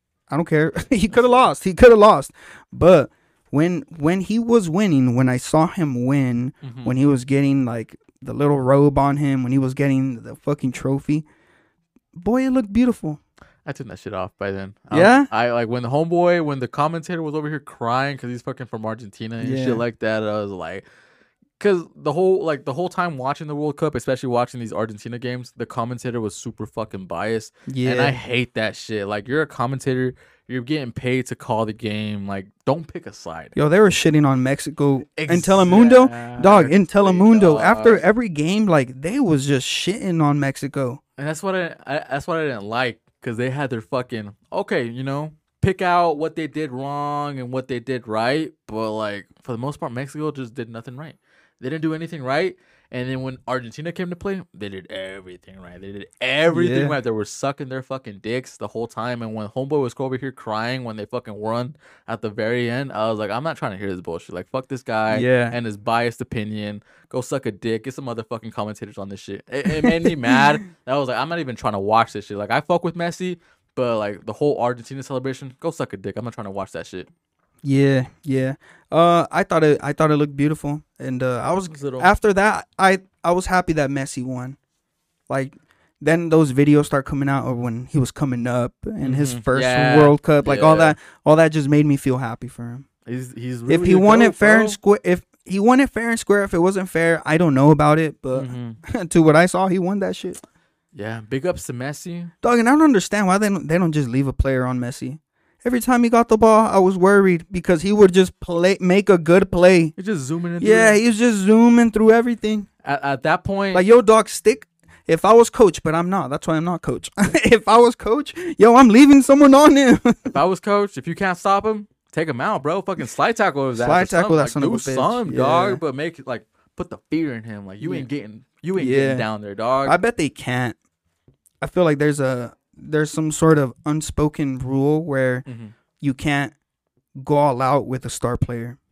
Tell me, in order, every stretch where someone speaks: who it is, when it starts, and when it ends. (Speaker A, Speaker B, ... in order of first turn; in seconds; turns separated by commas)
Speaker A: 0.3-11.2, Speaker B: 1.1-1.4, Speaker B: 6.6-6.9, Speaker A: 12.2-13.2, Speaker B: 13.7-20.8, Speaker A: 14.9-15.3, Speaker A: 19.4-19.8, Speaker B: 21.6-33.6, Speaker A: 27.7-28.2, Speaker A: 33.5-41.0, Speaker B: 35.2-38.0, Speaker B: 41.2-77.1, Speaker A: 56.5-57.0, Speaker A: 65.1-65.6, Speaker A: 69.8-70.1, Speaker A: 77.6-84.6, Speaker B: 81.7-82.1, Speaker A: 85.3-92.9, Speaker B: 89.0-91.0, Speaker B: 93.1-94.8, Speaker A: 93.7-100.4, Speaker B: 98.3-98.8, Speaker B: 100.9-102.3, Speaker A: 102.4-110.0, Speaker B: 110.0-111.0, Speaker A: 110.6-112.7, Speaker B: 112.8-113.9, Speaker A: 113.7-120.3, Speaker B: 120.3-130.0, Speaker A: 123.8-125.8, Speaker A: 127.8-128.1, Speaker A: 128.8-129.3, Speaker A: 129.8-130.8, Speaker A: 131.6-135.5, Speaker B: 135.5-135.7, Speaker A: 136.0-136.5, Speaker A: 137.2-138.8